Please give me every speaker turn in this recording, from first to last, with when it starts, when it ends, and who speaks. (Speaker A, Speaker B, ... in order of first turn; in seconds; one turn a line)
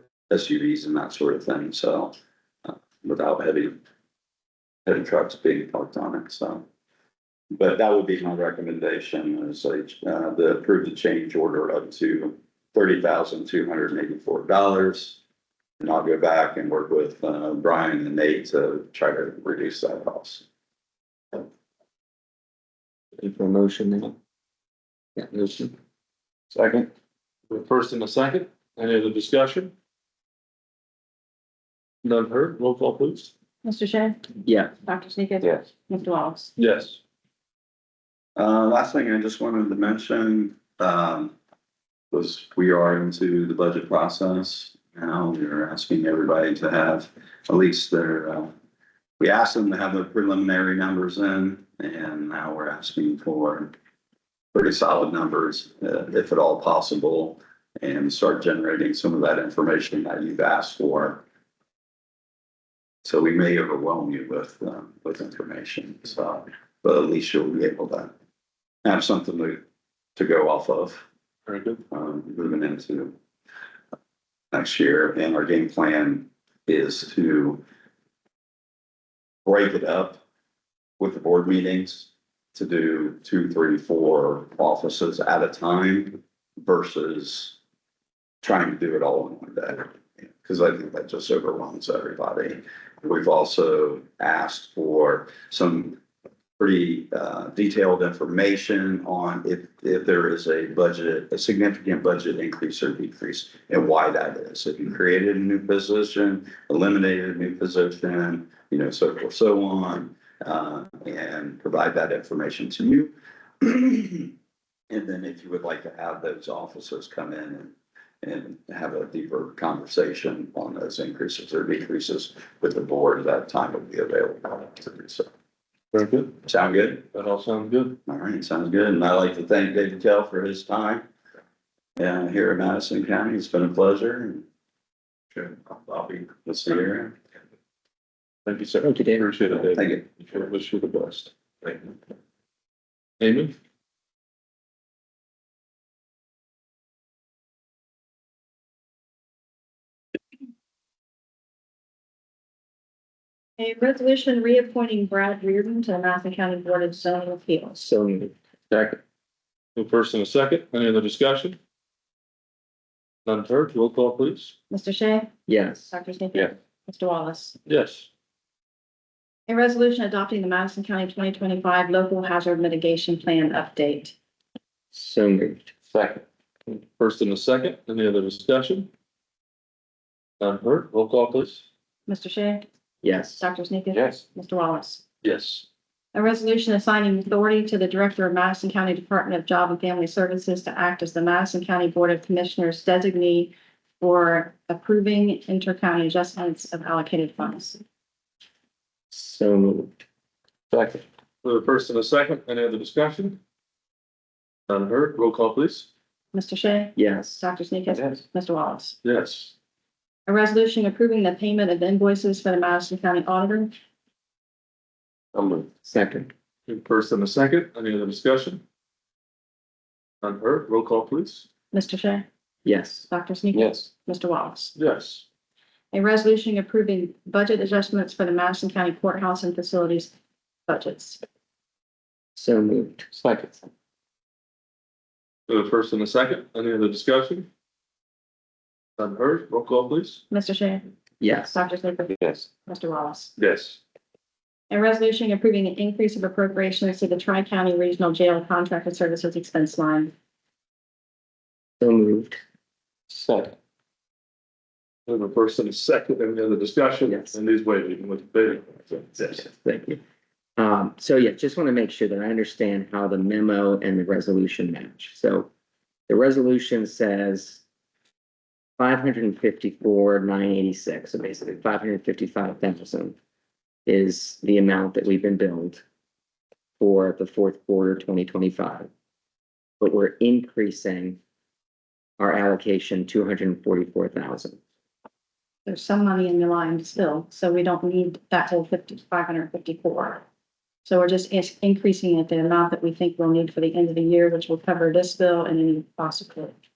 Speaker A: 0.3-3.7
Speaker A: 4.8-6.6
Speaker A: 7.5-15.2
Speaker A: 15.8-20.4
Speaker B: 23.2-24.1
Speaker B: 25.1-25.7
Speaker C: 26.6-26.8
Speaker C: 27.5-29.7
Speaker C: 32.0-33.3
Speaker D: 33.6-34.3
Speaker B: 34.4-34.7
Speaker D: 34.8-36.5
Speaker C: 36.6-37.0
Speaker A: 38.4-41.3
Speaker A: 42.1-48.5
Speaker A: 49.2-53.7
Speaker A: 54.5-61.2
Speaker A: 63.0-68.1
Speaker A: 68.8-69.6
Speaker A: 70.2-71.0
Speaker C: 71.5-71.8
Speaker A: 71.9-73.2
Speaker A: 74.5-77.6
Speaker A: 79.4-80.2
Speaker A: 81.0-87.5
Speaker A: 88.4-96.0
Speaker A: 96.6-114.3
Speaker A: 114.9-125.3
Speaker C: 125.9-126.3
Speaker A: 126.4-127.1
Speaker C: 127.1-128.0
Speaker A: 128.1-131.1
Speaker A: 132.0-134.4
Speaker A: 135.9-137.1
Speaker C: 138.4-141.9
Speaker B: 138.8-139.2
Speaker A: 139.7-140.1
Speaker C: 143.2-143.6
Speaker D: 153.6-157.8
Speaker B: 157.8-159.0
Speaker C: 159.8-161.6
Speaker C: 163.2-164.5
Speaker D: 164.7-165.3
Speaker B: 165.5-165.9
Speaker D: 165.9-167.6
Speaker C: 167.7-168.1
Speaker D: 169.5-174.1
Speaker B: 174.9-175.7
Speaker C: 175.9-178.9
Speaker C: 180.4-181.6
Speaker D: 182.1-182.7
Speaker B: 183.0-183.4
Speaker D: 183.4-185.0
Speaker C: 185.2-185.6
Speaker D: 186.1-197.8
Speaker B: 199.1-199.9
Speaker C: 200.7-203.4
Speaker C: 204.7-205.9
Speaker D: 206.3-209.0
Speaker B: 206.9-207.4
Speaker C: 209.0-209.5
Speaker D: 210.3-213.7
Speaker B: 215.8-216.3
Speaker C: 216.7-218.6
Speaker C: 220.2-221.4
Speaker D: 221.7-222.3
Speaker B: 222.6-223.1
Speaker D: 223.1-224.7
Speaker C: 224.8-225.2
Speaker D: 225.9-230.1
Speaker D: 230.7-231.2
Speaker B: 232.3-233.1
Speaker C: 235.5-237.5
Speaker C: 239.0-240.2
Speaker D: 240.3-240.9
Speaker B: 241.2-241.6
Speaker D: 241.5-243.3
Speaker C: 243.4-243.8
Speaker D: 244.7-250.1
Speaker B: 251.8-252.4
Speaker C: 253.1-253.5
Speaker C: 255.1-259.3
Speaker B: 257.1-257.4
Speaker B: 259.2-260.0
Speaker B: 260.6-265.5
Speaker B: 266.1-267.6
Speaker B: 268.8-273.1
Speaker B: 273.9-275.8
Speaker B: 276.8-278.9
Speaker B: 279.8-281.2
Speaker B: 282.2-284.6
Speaker D: 285.6-290.2
Speaker D: 290.8-296.6